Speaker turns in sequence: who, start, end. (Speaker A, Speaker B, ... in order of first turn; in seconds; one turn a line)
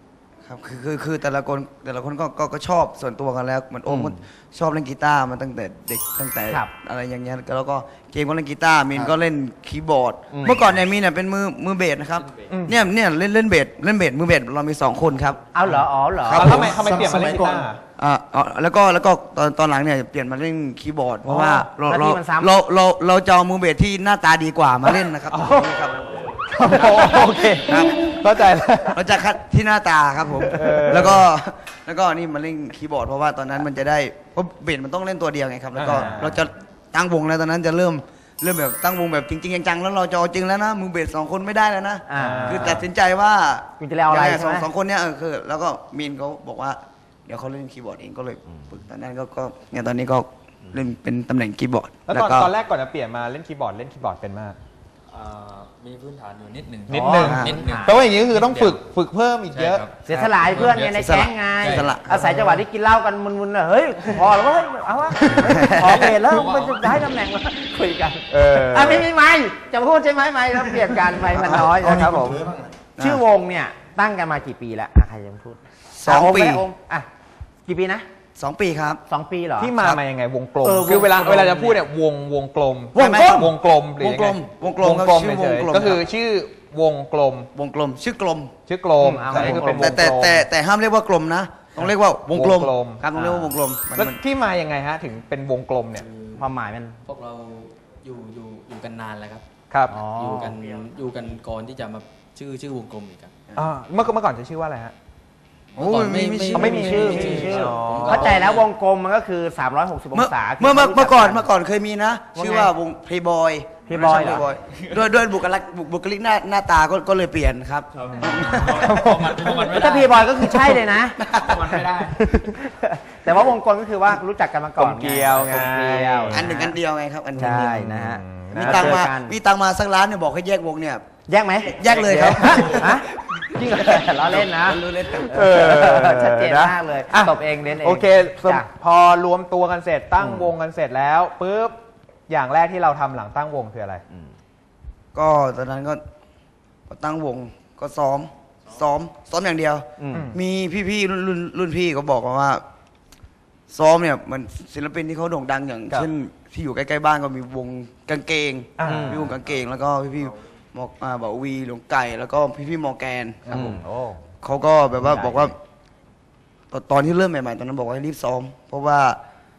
Speaker A: 0.5-15.6
Speaker B: 3.9-4.2
Speaker B: 10.3-10.7
Speaker C: 12.5-12.8
Speaker B: 15.5-16.7
Speaker A: 16.2-16.9
Speaker C: 16.3-17.8
Speaker D: 16.6-17.7
Speaker A: 18.0-26.0
Speaker C: 21.2-21.6
Speaker B: 21.8-22.5
Speaker C: 25.3-25.7
Speaker C: 26.5-29.0
Speaker A: 26.8-28.0
Speaker B: 26.9-27.1
Speaker A: 28.9-52.5
Speaker C: 30.5-31.2
Speaker C: 35.8-36.4
Speaker B: 42.1-42.8
Speaker C: 42.2-42.9
Speaker B: 43.8-44.7
Speaker C: 52.1-54.6
Speaker E: 55.1-58.8
Speaker C: 56.9-60.2
Speaker B: 56.9-58.0
Speaker A: 57.2-57.6
Speaker E: 59.5-61.0
Speaker B: 60.1-72.5
Speaker A: 60.9-62.2
Speaker E: 61.6-61.9
Speaker A: 65.4-66.0
Speaker E: 66.3-66.7
Speaker C: 68.3-69.1
Speaker A: 71.3-72.1
Speaker D: 71.8-72.7
Speaker A: 73.0-73.2
Speaker B: 73.0-77.1
Speaker A: 75.9-76.7
Speaker B: 77.7-78.0
Speaker A: 78.4-79.0
Speaker B: 79.1-79.7
Speaker C: 79.6-87.5
Speaker A: 79.8-80.0
Speaker B: 80.6-81.9
Speaker B: 83.0-83.5
Speaker A: 83.0-86.0
Speaker A: 87.5-88.5
Speaker C: 88.7-90.5
Speaker B: 89.0-90.0
Speaker A: 89.3-94.2
Speaker C: 92.3-93.0
Speaker B: 93.2-93.5
Speaker C: 93.9-96.0
Speaker E: 96.0-96.5
Speaker B: 96.4-97.0
Speaker E: 97.0-99.5
Speaker C: 99.7-100.0
Speaker B: 99.9-100.5
Speaker E: 100.0-103.3
Speaker C: 103.6-104.9
Speaker A: 105.8-108.6
Speaker E: 105.8-108.6
Speaker B: 106.5-111.5
Speaker C: 106.5-108.4
Speaker A: 110.1-119.5
Speaker B: 112.3-112.7
Speaker B: 113.9-114.5
Speaker C: 118.1-118.5
Speaker E: 118.8-120.2
Speaker B: 119.6-121.2
Speaker A: 120.5-121.8
Speaker E: 121.5-122.2
Speaker B: 122.2-126.8
Speaker C: 124.8-126.5
Speaker A: 126.3-127.9
Speaker B: 127.4-129.4
Speaker C: 127.5-129.0
Speaker A: 128.5-131.0
Speaker B: 131.3-138.7
Speaker A: 131.6-133.0
Speaker C: 132.4-132.9
Speaker A: 133.7-135.5
Speaker C: 135.1-141.8
Speaker B: 140.2-140.5
Speaker C: 142.3-144.0
Speaker A: 145.1-146.0
Speaker A: 146.9-152.6
Speaker B: 150.0-150.3
Speaker A: 153.7-163.8
Speaker C: 158.8-159.2
Speaker B: 158.8-159.3
Speaker C: 163.5-163.7
Speaker B: 163.5-164.2
Speaker A: 164.4-165.6
Speaker B: 165.0-165.5
Speaker A: 166.7-169.2